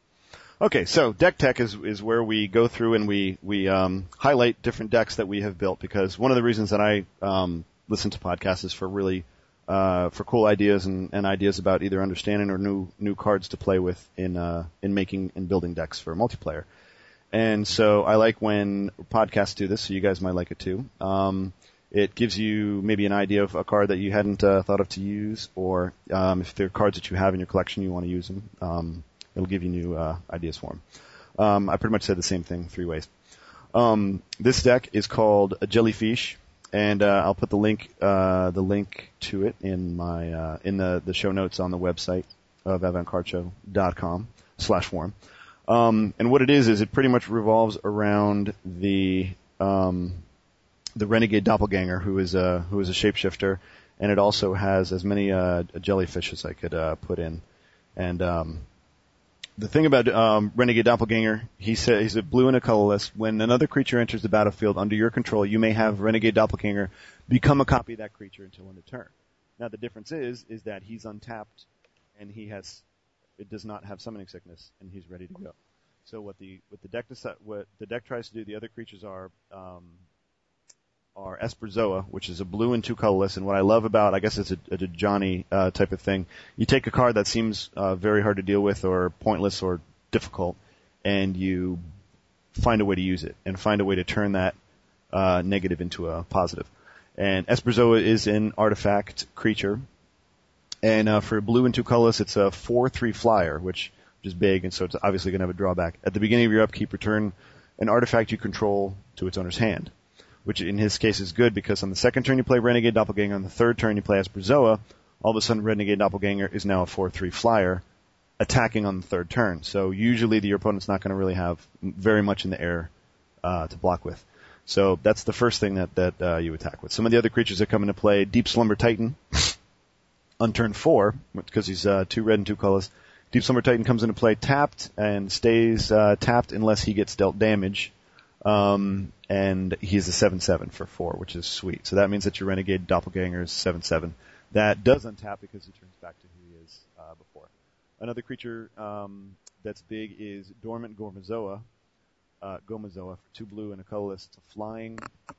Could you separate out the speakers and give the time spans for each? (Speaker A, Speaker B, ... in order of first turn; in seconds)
Speaker A: 0.6-16.6, 17.3-30.8, 31.4-33.1, 33.7-45.1, 45.7-50.2, 51.0-57.4, 58.0-58.6, 59.6-72.8, 73.4-75.5, 76.0-80.0, 81.2-91.8, 92.5-94.5, 95.1-99.8, 100.8-109.9, 110.4-117.8, 118.4-122.9, 123.4-129.6, 130.4-151.7, 152.4-155.1